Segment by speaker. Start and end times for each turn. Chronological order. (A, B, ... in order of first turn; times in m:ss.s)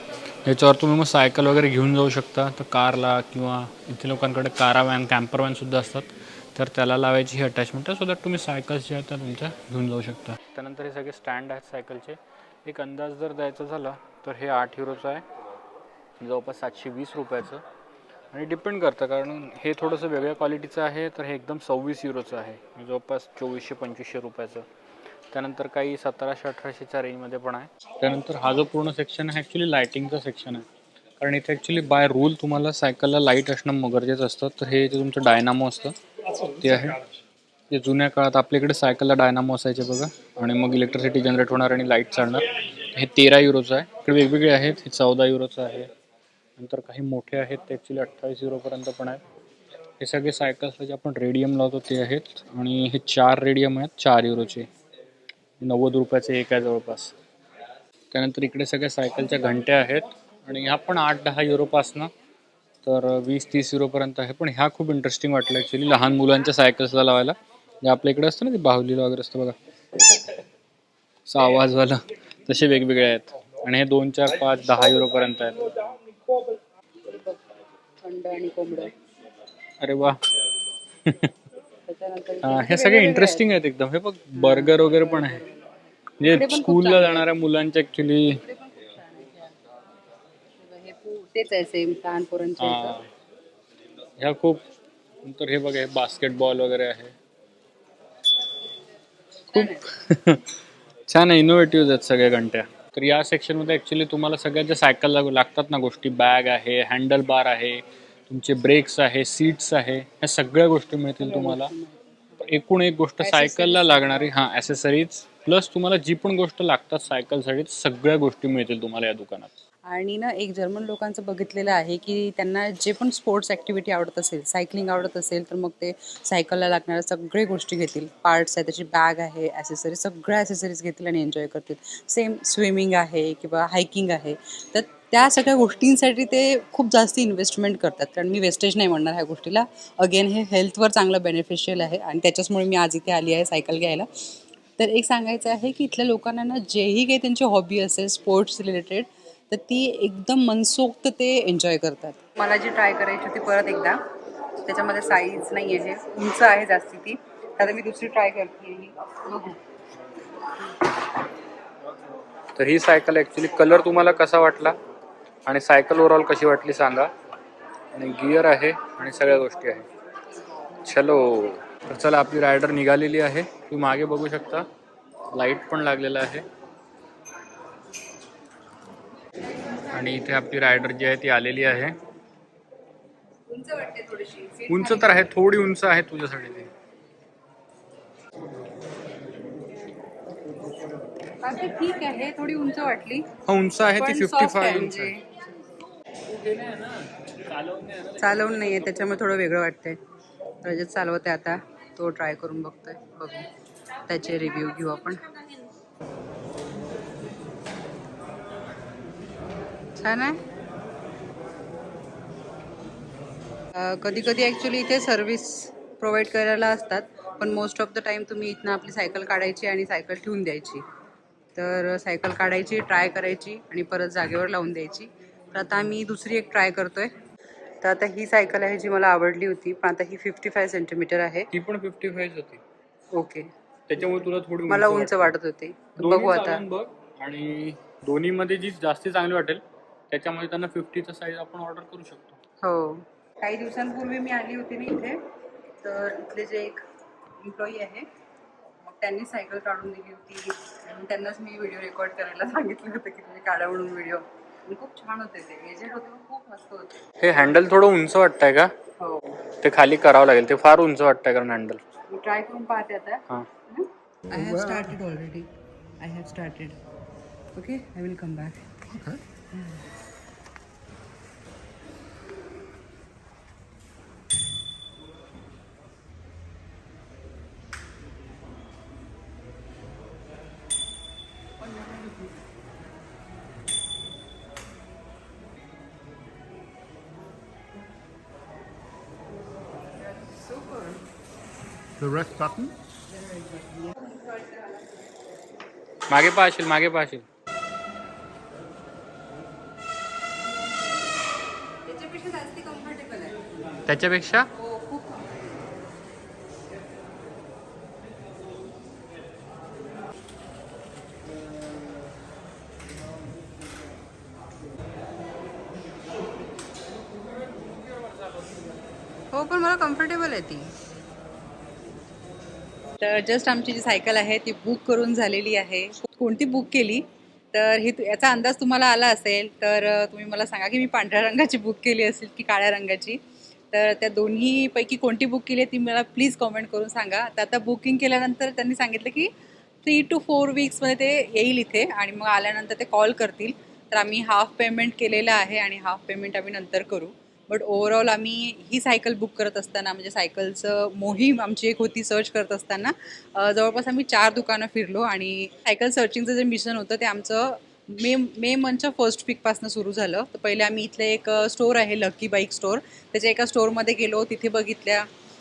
0:00.4-0:15.2 A
0:16.2-0:17.6 A
0:18.3-0:24.7 A
0:25.3-0:30.6 A
0:31.2-0:37.0 A
0:37.7-0:45.9 A
0:46.6-0:49.2 A
0:50.0-0:54.7 A
0:55.6-0:57.1 A
0:58.1-1:02.1 A
1:02.8-1:09.6 A
1:11.3-1:15.9 A
1:17.0-1:17.4 B
1:18.0-1:18.9 B
1:19.8-1:20.2 A
1:21.0-1:21.3 A
1:21.9-1:23.4 B
1:22.4-1:25.4 A
1:24.4-1:25.7 B
1:26.2-1:28.4 A
1:26.3-1:27.3 B
1:28.4-1:29.5 B
1:30.6-1:33.0 B
1:32.6-1:33.1 A
1:34.2-1:34.6 A
1:35.2-1:37.2 A
1:39.5-1:39.9 B
1:39.5-1:40.5 A
1:41.1-1:51.7 A
1:51.2-1:52.0 B
1:52.4-1:59.5 A
1:53.2-1:54.2 B
1:59.9-2:24.2 B
2:24.8-2:34.0 B
2:34.6-2:39.6 B
2:42.6-2:44.8 A
2:45.5-2:47.1 A
2:48.0-2:49.9 A
2:50.8-2:54.7 A
2:55.3-2:56.5 A
2:59.9-3:02.0 A
3:03.5-3:05.2 B
3:04.7-3:06.7 A
3:11.4-3:13.3 B
3:13.4-3:15.1 A
3:13.9-3:15.3 B
3:16.3-3:19.2 A
3:18.2-3:20.0 B
3:20.6-3:23.5 B
3:24.0-3:25.3 B
3:30.0-3:30.4 B
3:33.8-3:40.8 B
3:41.6-3:47.1 B
3:47.8-3:51.5 B
3:51.5-3:52.6 A
3:53.1-3:53.5 B
3:53.9-3:55.4 A
3:54.7-3:56.6 B
3:56.0-4:02.4 A
4:02.6-4:05.2 B
4:05.8-4:06.8 B
4:07.4-4:08.1 B
4:08.8-4:17.1 B
4:17.2-4:18.7 A
4:19.0-4:19.4 B
4:19.6-4:21.8 A
4:22.1-4:26.8 B
4:27.5-4:29.8 B
4:52.1-4:52.5 A
4:53.8-4:54.9 B
4:56.1-4:57.2 A
5:01.9-5:03.4 B
5:03.9-5:04.5 A
5:04.5-5:05.4 B
5:19.3-5:20.7 B
5:23.0-5:33.2 B
5:33.7-5:39.3 B
5:39.8-6:05.1 B